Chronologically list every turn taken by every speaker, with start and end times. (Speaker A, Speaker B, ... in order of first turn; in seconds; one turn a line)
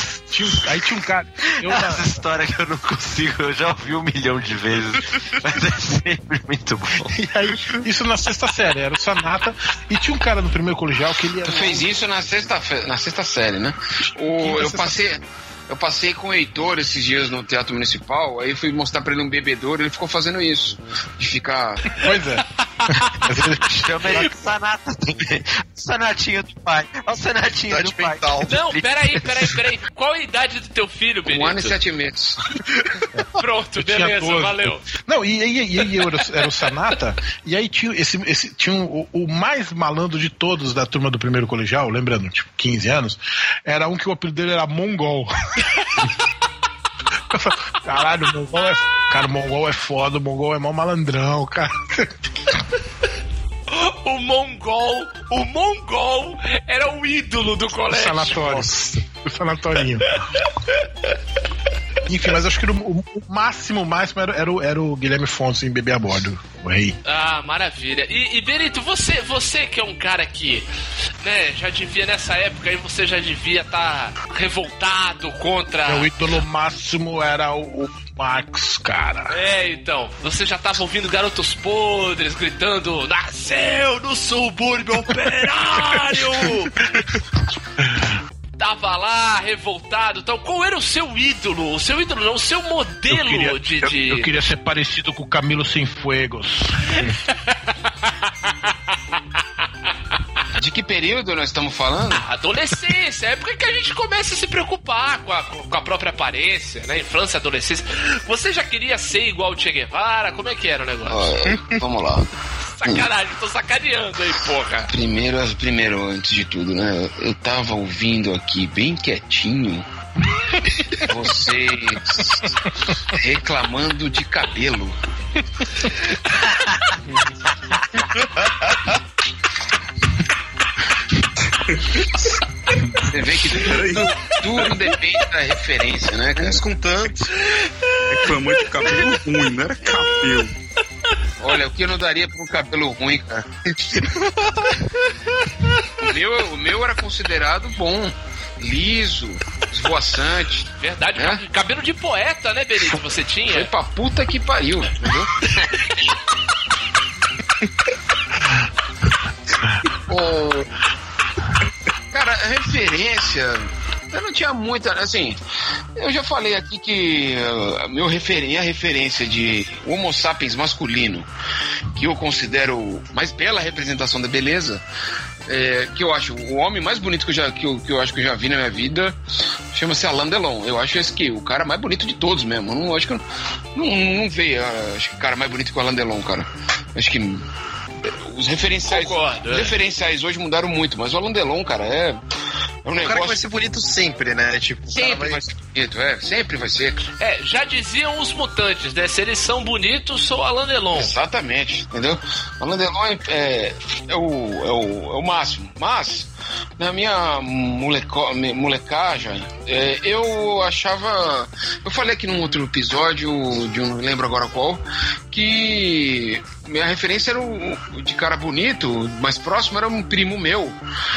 Speaker A: 0.3-2.0
Speaker B: 1.6-7.1
Speaker A: 7.1-11.9
Speaker C: 11.4-21.8
Speaker A: 14.4-15.0
Speaker A: 22.0-24.3
Speaker D: 22.8-23.2
Speaker B: 23.7-29.4
Speaker E: 27.7-28.5
Speaker D: 28.5-31.8
Speaker C: 31.2-32.4
Speaker D: 33.4-34.9
Speaker A: 33.8-45.3
Speaker A: 47.3-52.1
Speaker D: 53.7-58.7
Speaker A: 57.9-60.1
Speaker A: 62.1-67.0
Speaker D: 67.0-70.7
Speaker D: 71.2-76.1
Speaker A: 75.9-79.4
Speaker D: 79.3-86.8
Speaker A: 87.8-88.1
Speaker D: 88.6-94.3
Speaker A: 93.1-97.1
Speaker D: 97.0-97.5
Speaker C: 100.6-102.2
Speaker D: 102.2-111.3
Speaker C: 111.1-112.3
Speaker D: 112.8-114.9
Speaker C: 114.9-119.9
Speaker C: 121.1-122.5
Speaker C: 123.1-125.0
Speaker E: 128.2-128.9
Speaker F: 131.6-132.1
Speaker C: 133.1-136.6
Speaker F: 133.6-134.7
Speaker E: 136.3-137.3
Speaker D: 137.5-138.3
Speaker F: 138.1-140.5
Speaker C: 141.4-143.4
Speaker E: 143.9-144.6
Speaker C: 146.0-151.4
Speaker D: 150.8-153.7
Speaker C: 153.5-155.3
Speaker C: 160.1-160.6
Speaker C: 162.1-165.4
Speaker C: 166.0-171.3
Speaker C: 171.9-174.8
Speaker C: 175.5-179.2
Speaker C: 179.7-183.2
Speaker C: 183.8-187.4
Speaker C: 188.0-192.2
Speaker D: 188.9-189.8
Speaker C: 192.8-193.4
Speaker E: 193.0-195.4
Speaker C: 194.9-197.0
Speaker D: 197.2-201.2
Speaker C: 200.9-220.8